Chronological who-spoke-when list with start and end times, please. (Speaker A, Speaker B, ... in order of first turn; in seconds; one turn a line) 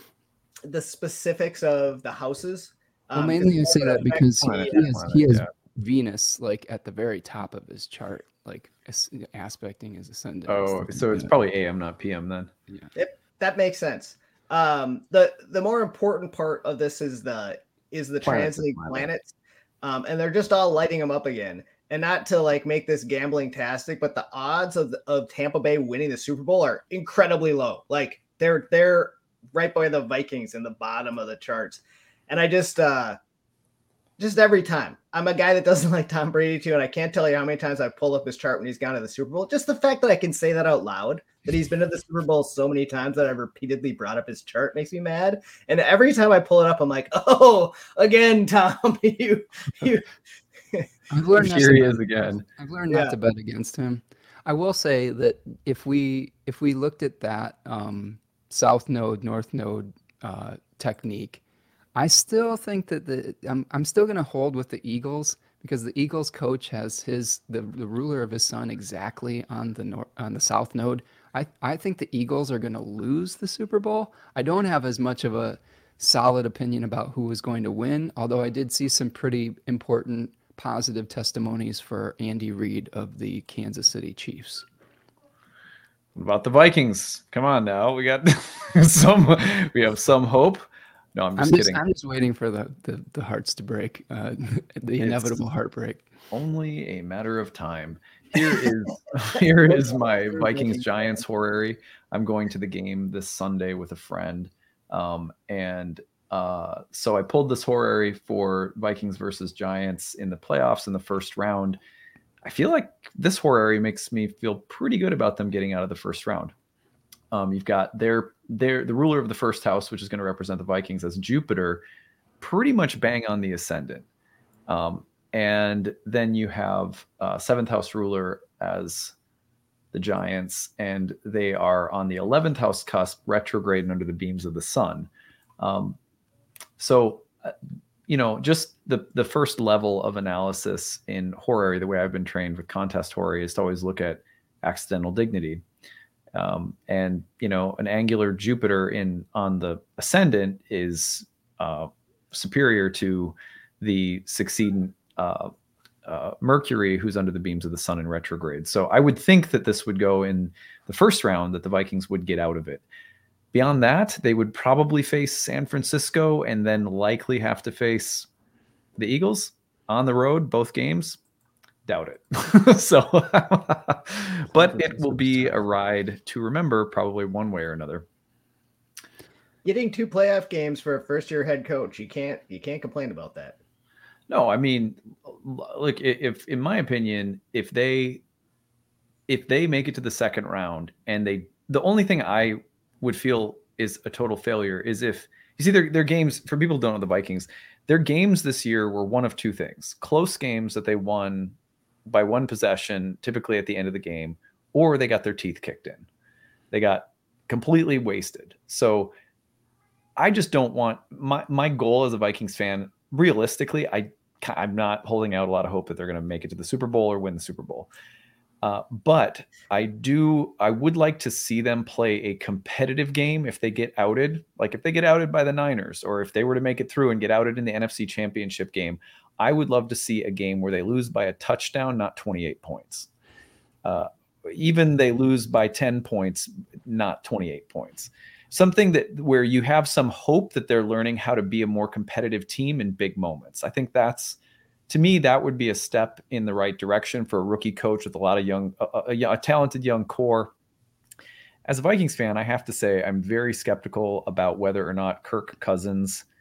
Speaker A: 0.6-4.8
Speaker B: 3.1-11.3
Speaker C: 4.4-5.5
Speaker C: 10.5-12.5
Speaker A: 12.9-33.2
Speaker C: 18.2-19.1
Speaker A: 34.2-50.1
Speaker B: 51.1-61.4
Speaker C: 51.4-52.4
Speaker A: 52.9-53.1
Speaker B: 61.9-84.7
Speaker C: 86.1-91.8
Speaker B: 91.4-96.0
Speaker C: 95.0-95.3
Speaker C: 96.3-111.8
Speaker A: 100.3-100.8
Speaker C: 112.4-116.5
Speaker C: 117.3-121.8
Speaker C: 122.4-124.0
Speaker C: 124.7-129.1
Speaker C: 129.9-135.1
Speaker C: 135.6-136.0
Speaker C: 136.8-137.5
Speaker C: 138.1-145.6
Speaker C: 146.3-155.5
Speaker C: 156.0-162.8
Speaker C: 163.5-168.3
Speaker C: 169.0-171.2
Speaker C: 171.8-178.1
Speaker B: 174.5-175.5
Speaker A: 179.6-183.6
Speaker C: 184.3-188.2
Speaker C: 189.3-201.6
Speaker C: 202.1-206.1
Speaker C: 206.7-209.1
Speaker C: 210.2-217.9
Speaker C: 218.6-233.1
Speaker C: 233.8-244.4
Speaker C: 244.9-250.5
Speaker C: 251.7-256.2